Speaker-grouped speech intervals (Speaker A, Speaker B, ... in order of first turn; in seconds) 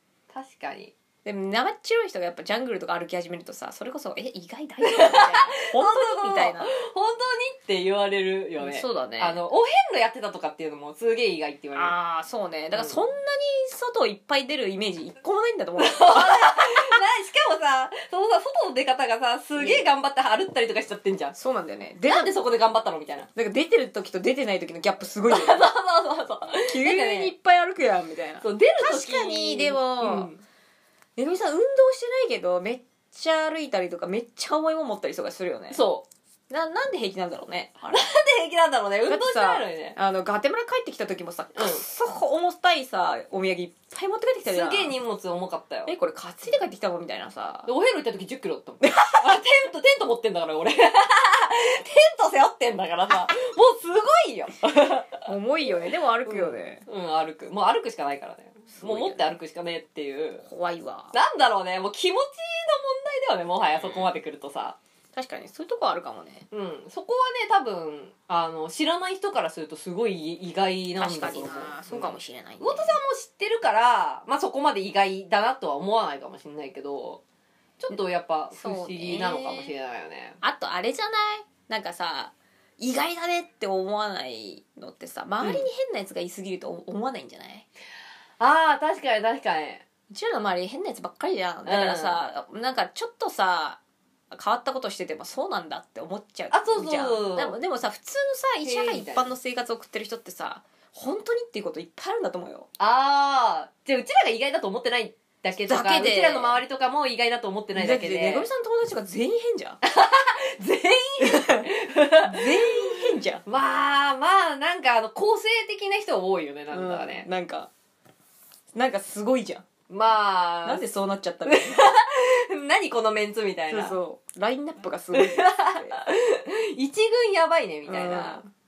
Speaker A: 0.3-0.9, 4.8-12.0, 12.7-13.0, 15.8-21.4, 22.1-23.3, 25.3-27.3, 28.4-30.4, 35.7-36.1, 37.9-40.0, 41.6-41.8, 44.5-45.9, 47.7-55.3, 56.2-60.5, 61.1-64.8, 66.5-77.2, 77.8-80.4, 88.4-89.8, 91.7-92.2, 96.5-97.6, 98.7-99.3, 102.8-108.5, 109.8-117.3, 119.9-120.8, 121.5-124.0, 125.1-128.4
Speaker B: 1.2-6.8, 8.6-9.4, 11.8-17.0, 19.6-19.9, 21.4-22.4, 23.4-25.6, 26.7-30.3, 31.2-35.8, 36.5-38.1, 39.1-44.9, 45.9-47.7, 48.8-49.4, 55.2-56.8, 58.7-59.4, 60.4-61.1, 63.7-64.1, 65.1-66.5, 71.0-73.0, 78.5-79.7, 80.4-87.7, 90.1-93.8, 94.3-102.7, 105.7-106.6, 107.8-109.8, 111.2-111.7, 112.2-113.4, 116.7-117.7, 118.7-119.7, 120.7-121.9, 123.7-126.0, 127.9-128.5